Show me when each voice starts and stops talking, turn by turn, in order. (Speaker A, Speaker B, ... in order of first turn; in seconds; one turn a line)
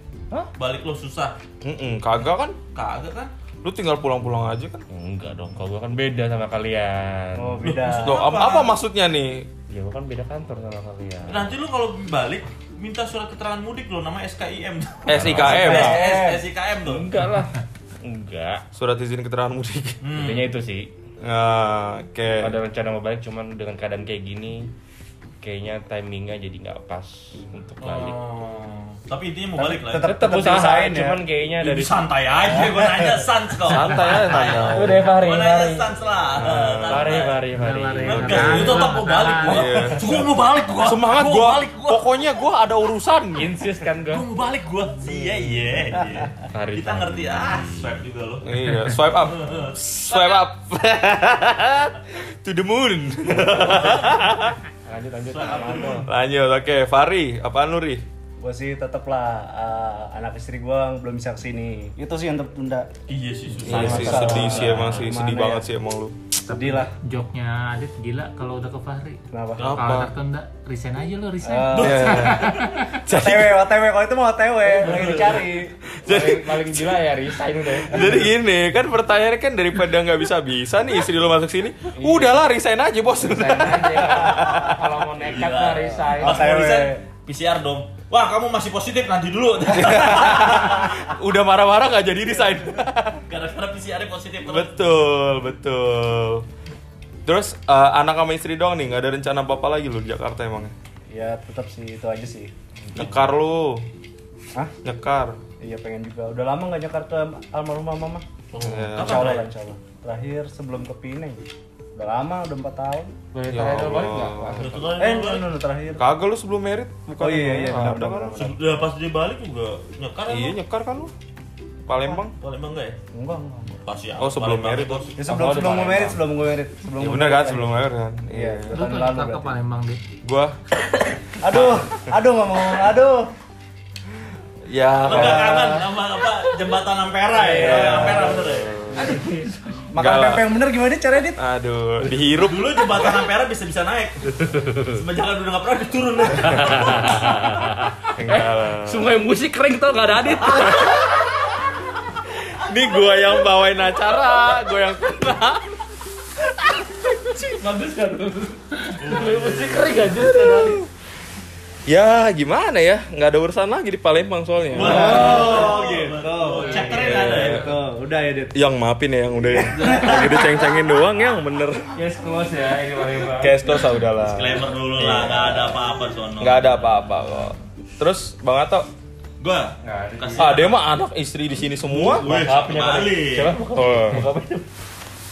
Speaker A: 0.6-1.4
Speaker B: 1.6-2.6
Speaker A: 2.7-3.3
Speaker B: 3.6-4.8
Speaker C: 4.9-7.7
Speaker D: 7.4-8.2
Speaker A: 7.6-8.7
Speaker B: 7.9-9.5
Speaker C: 9.7-11.6
Speaker A: 11.3-17.1
Speaker B: 15.1-16.0
Speaker C: 15.1-16.0
Speaker D: 15.5-16.4
Speaker C: 16.8-18.6
Speaker B: 18.8-20.0
Speaker A: 20.0-20.5
Speaker C: 20.1-20.9
Speaker B: 21.2-22.6
Speaker C: 22.4-24.7
Speaker C: 25.4-28.2
Speaker A: 27.8-30.1
Speaker D: 29.6-31.2
Speaker C: 30.0-32.1
Speaker A: 31.6-37.4
Speaker D: 32.5-33.2
Speaker B: 33.7-35.0
Speaker C: 34.6-35.9
Speaker B: 36.4-37.1
Speaker C: 36.9-38.8
Speaker E: 37.6-39.7
Speaker A: 38.1-42.1
Speaker B: 38.1-38.8
Speaker B: 39.4-40.2
Speaker B: 40.8-43.5
Speaker C: 43.4-44.3
Speaker A: 44.1-48.5
Speaker C: 46.5-47.9
Speaker B: 48.4-54.6
Speaker A: 49.1-50.4
Speaker A: 53.4-54.1
Speaker C: 54.9-56.1
Speaker A: 55.3-56.1
Speaker B: 56.0-58.0
Speaker D: 58.4-62.9
Speaker A: 63.1-64.7
Speaker D: 63.6-65.7
Speaker B: 63.6-66.2
Speaker C: 63.7-65.0
Speaker D: 66.5-66.9
Speaker E: 66.5-73.0
Speaker D: 69.3-69.8
Speaker A: 69.6-69.9
Speaker B: 69.6-70.1
Speaker D: 71.4-72.4
Speaker A: 71.8-72.1
Speaker B: 71.8-73.7
Speaker D: 73.1-75.8
Speaker C: 74.8-75.4
Speaker B: 76.0-77.0
Speaker C: 76.0-78.3
Speaker B: 77.9-84.8
Speaker D: 82.0-82.3
Speaker C: 83.2-86.6
Speaker A: 85.2-91.0
Speaker D: 86.1-87.0
Speaker B: 89.7-93.2
Speaker A: 93.3-94.8
Speaker B: 94.5-96.5
Speaker B: 97.3-100.7
Speaker D: 101.1-102.5
Speaker C: 102.9-103.3
Speaker B: 102.9-103.8
Speaker B: 104.8-105.4
Speaker D: 105.6-108.2
Speaker A: 108.5-109.5
Speaker B: 108.6-109.4
Speaker D: 109.0-111.4
Speaker D: 112.0-113.2
Speaker C: 113.3-114.8
Speaker B: 113.5-114.9
Speaker A: 114.6-115.6
Speaker D: 115.0-116.0
Speaker B: 116.0-118.4
Speaker D: 117.2-118.6
Speaker A: 118.4-120.6
Speaker B: 120.3-121.1
Speaker B: 121.9-122.3
Speaker A: 122.4-123.0
Speaker D: 123.1-123.8
Speaker A: 123.8-125.2
Speaker B: 124.2-125.1
Speaker D: 125.2-127.8
Speaker C: 125.2-126.3
Speaker B: 127.0-128.8
Speaker D: 128.3-129.6
Speaker E: 128.7-130.0
Speaker B: 130.2-130.6
Speaker D: 131.4-133.3
Speaker B: 131.5-132.0
Speaker B: 134.7-135.8
Speaker A: 135.1-138.7
Speaker D: 135.1-135.9
Speaker D: 137.3-138.5
Speaker B: 137.6-139.2
Speaker D: 139.9-141.4
Speaker B: 140.0-140.6
Speaker B: 141.4-143.2
Speaker A: 142.3-147.4
Speaker C: 146.6-151.1
Speaker B: 148.2-149.1
Speaker B: 150.7-151.3
Speaker B: 152.5-155.7
Speaker B: 156.7-157.6
Speaker C: 157.4-160.8
Speaker A: 159.0-160.2
Speaker B: 160.2-160.8
Speaker B: 161.9-165.6
Speaker A: 164.7-167.7
Speaker D: 164.8-168.6
Speaker C: 164.9-165.6
Speaker B: 166.8-167.7
Speaker B: 168.6-171.9
Speaker D: 169.8-170.5
Speaker A: 169.8-170.2
Speaker C: 171.9-173.7
Speaker B: 173.3-175.8
Speaker A: 174.2-176.8
Speaker B: 176.4-178.9
Speaker A: 179.4-180.8
Speaker C: 179.8-180.6
Speaker B: 180.4-182.3
Speaker A: 181.9-183.6
Speaker C: 182.2-184.6
Speaker B: 183.8-184.3